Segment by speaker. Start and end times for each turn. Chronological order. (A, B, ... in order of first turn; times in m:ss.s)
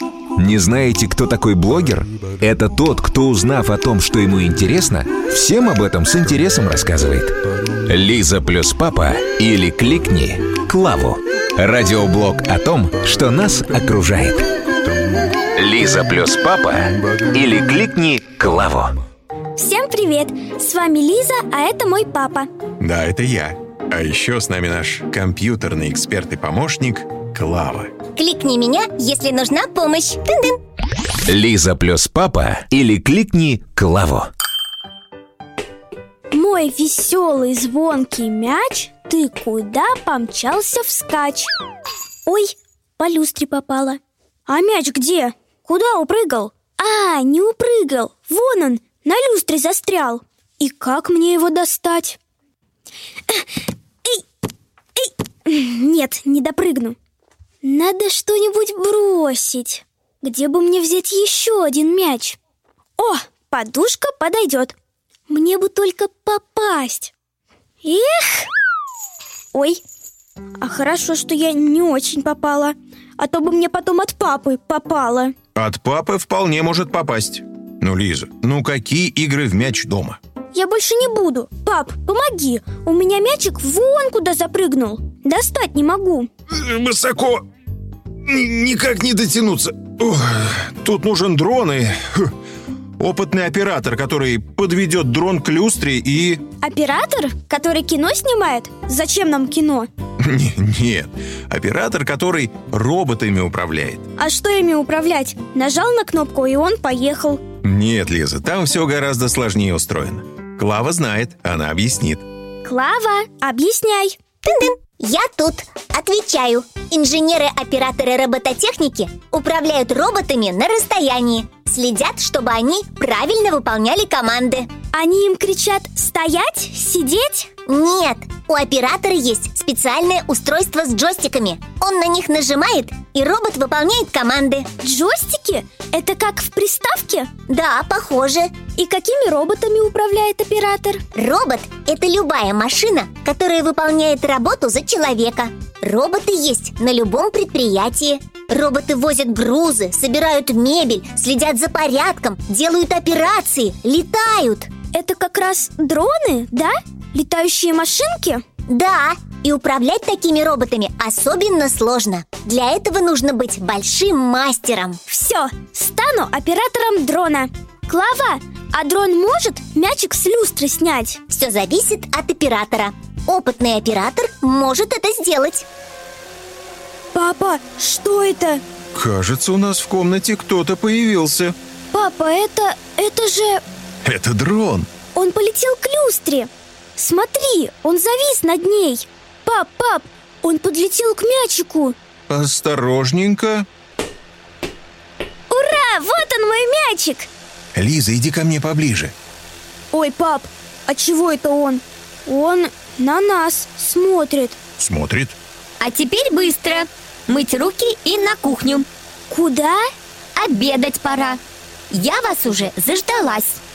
0:00.4-0:14.5 A
0:15.6-0:19.0 A
0:19.6-0:22.5 B
0:22.8-0:27.9 C
0:28.1-0:30.6 D
0:31.3-0:34.3 A
0:36.3-0:41.5 B
0:42.2-0:52.2 B
0:55.0-0:57.0 B
0:57.6-1:02.4 B
1:03.0-1:04.8 B
1:05.3-1:07.1 B
1:07.8-1:08.5 B
1:09.5-1:09.8 B
1:10.6-1:15.3 B
1:15.6-1:20.2 C
1:20.5-1:26.3 B
1:26.5-1:27.4 C
1:28.2-1:32.3 C
1:33.0-1:36.4 C
1:36.6-1:39.9 B
1:40.2-1:44.0 C
1:44.2-1:47.4 B
1:47.6-1:52.2 C
1:52.6-1:54.2 B
1:54.4-2:04.7 D
2:04.9-2:07.5 B
2:07.7-2:14.7 D
2:14.8-2:17.3 B
2:17.5-2:18.5 D
2:18.8-2:21.0 B
2:21.2-2:34.7 D
2:34.9-2:38.4 B
2:38.7-2:45.0 D
2:45.1-2:51.2 B
2:51.3-2:55.6 D
2:57.1-2:58.6 B
2:58.9-3:01.5 C
3:01.9-3:03.6 B
3:04.0-3:04.9 C
3:05.1-3:12.0 B
3:12.3-3:13.6 C
3:15.5-3:17.3 B
3:17.7-3:19.1 C
3:19.9-3:24.6 B
3:24.8-3:25.4 C
3:25.8-3:28.8 E
3:29.3-3:29.8 B
3:30.4-3:31.4 E
3:31.9-3:33.6 E